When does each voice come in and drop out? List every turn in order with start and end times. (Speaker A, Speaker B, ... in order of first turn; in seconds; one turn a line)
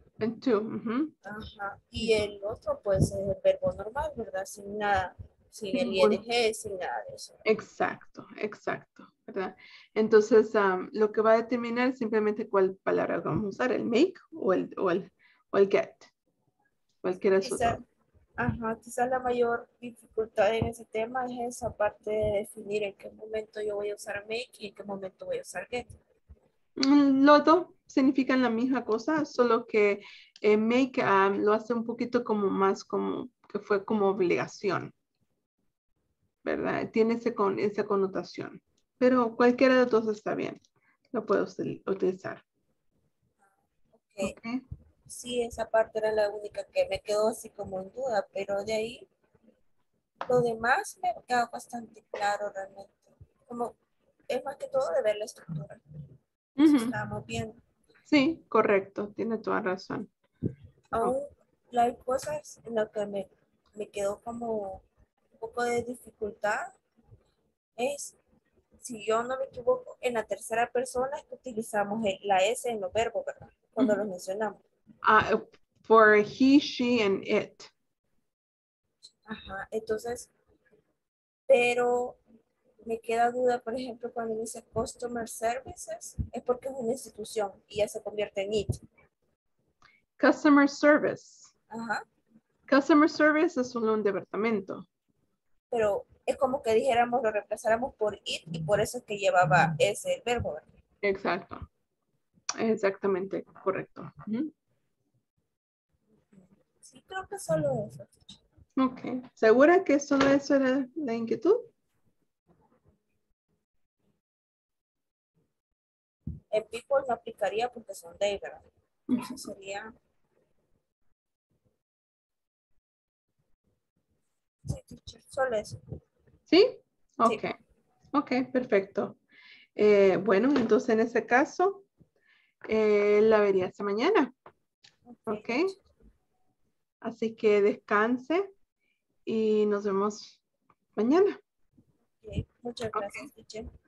Speaker A: 0.2-1.1
Speaker B: 1.2-7.3
Speaker A: 5.7-6.2
Speaker A: 7.5-16.1
Speaker A: 17.0-17.8
Speaker B: 17.4-17.8
Speaker B: 18.4-25.9
Speaker A: 26.8-34.9
Speaker A: 36.4-40.6
Speaker A: 41.1-42.4
Speaker B: 43.9-44.4
Speaker A: 44.2-44.6
Speaker B: 45.1-49.0
Speaker B: 50.2-53.7
Speaker B: 54.3-55.8
Speaker A: 56.6-56.9
Speaker B: 56.6-57.6
Speaker A: 58.1-60.1
Speaker B: 60.9-64.8
Speaker B: 65.4-66.7
Speaker B: 67.8-68.2
Speaker B: 68.8-74.6
Speaker A: 75.0-77.7
Speaker B: 79.3-80.3
Speaker B: 81.5-82.2
Speaker B: 82.8-88.8
Speaker A: 90.2-91.5
Speaker B: 91.7-92.0
Speaker A: 92.7-94.8
Speaker B: 95.7-100.7
Speaker A: 101.0-101.7
Speaker A: 102.6-104.5
Speaker B: 106.3-108.4
Speaker A: 108.8-111.7
Speaker B: 116.5-119.9
Speaker A: 119.1-119.4
Speaker B: 124.7-125.8
Speaker A: 126.5-127.5
Speaker A: 128.1-129.2
Speaker A: 129.8-131.8
Speaker A: 132.7-134.3
Speaker B: 135.1-135.7
Speaker A: 135.3-135.7
Speaker A: 137.0-138.5
Speaker A: 139.2-140.4
Speaker A: 140.9-141.4
Speaker B: 142.2-143.7
Speaker A: 142.9-143.3